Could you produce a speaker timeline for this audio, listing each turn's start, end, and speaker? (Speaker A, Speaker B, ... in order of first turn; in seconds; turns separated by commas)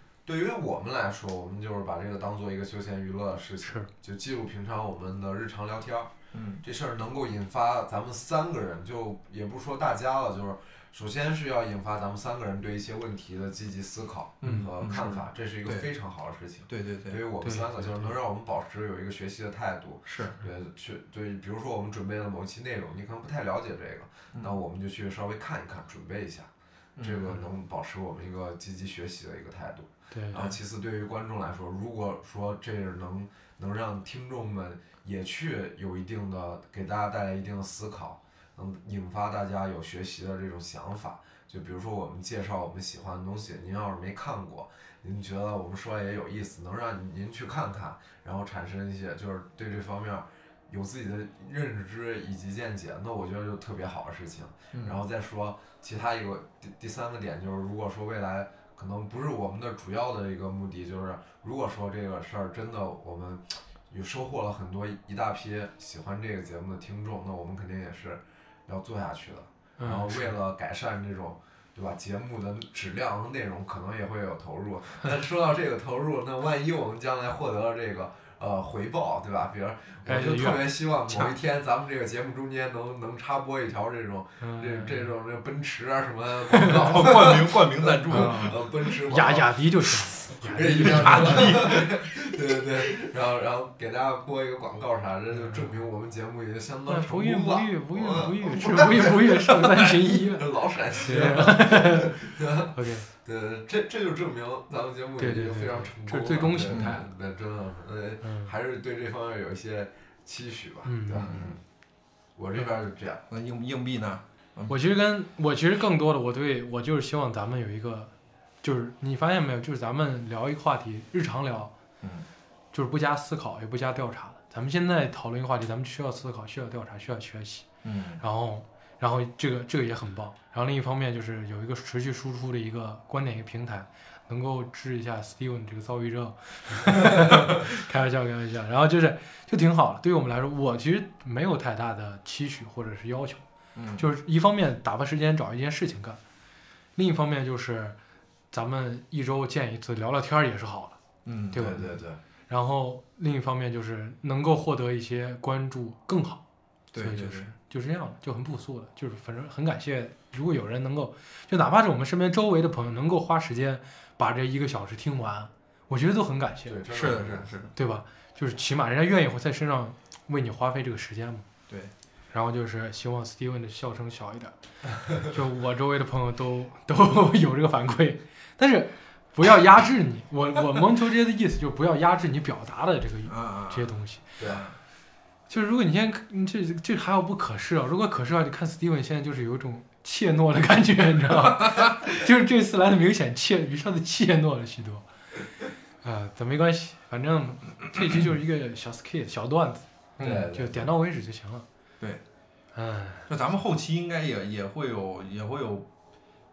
Speaker A: 0.2-89.5, Speaker B: 3.6-3.9, Speaker C: 6.3-6.6, Speaker C: 14.4-15.9, Speaker C: 16.7-17.2, Speaker B: 17.4-18.1, Speaker C: 20.1-20.4, Speaker C: 24.3-24.6, Speaker C: 26.9-27.4, Speaker B: 30.1-30.5, Speaker C: 54.7-55.0, Speaker B: 69.8-70.3, Speaker B: 80.0-81.3, Speaker B: 84.4-85.1, Speaker B: 86.5-86.9, Speaker C: 86.6-88.6, Speaker B: 88.1-91.7, Speaker A: 90.3-111.6, Speaker C: 90.8-92.0, Speaker B: 95.4-95.6, Speaker B: 96.9-103.1, Speaker B: 105.2-107.1, Speaker C: 106.7-107.0, Speaker B: 108.2-108.5, Speaker B: 110.8-111.3, Speaker A: 112.3-113.2, Speaker C: 113.3-114.7, Speaker B: 114.7-118.1, Speaker B: 118.6-121.7, Speaker C: 122.0-122.3, Speaker B: 122.7-127.7, Speaker C: 127.8-128.2, Speaker B: 128.2-143.4, Speaker C: 143.8-144.0, Speaker B: 144.0-146.2, Speaker B: 146.9-148.0, Speaker B: 148.5-151.0, Speaker C: 151.2-151.9, Speaker B: 151.5-151.8, Speaker A: 151.6-152.2, Speaker B: 152.5-156.4, Speaker C: 156.9-157.5, Speaker B: 157.0-166.8, Speaker A: 166.7-167.5, Speaker C: 166.9-167.7, Speaker B: 167.7-171.4, Speaker B: 172.3-174.5, Speaker B: 175.2-184.2, Speaker C: 183.3-184.8, Speaker B: 185.5-195.1, Speaker B: 196.0-201.7, Speaker C: 200.2-200.5, Speaker A: 200.2-200.9, Speaker B: 202.7-203.3, Speaker C: 203.3-205.9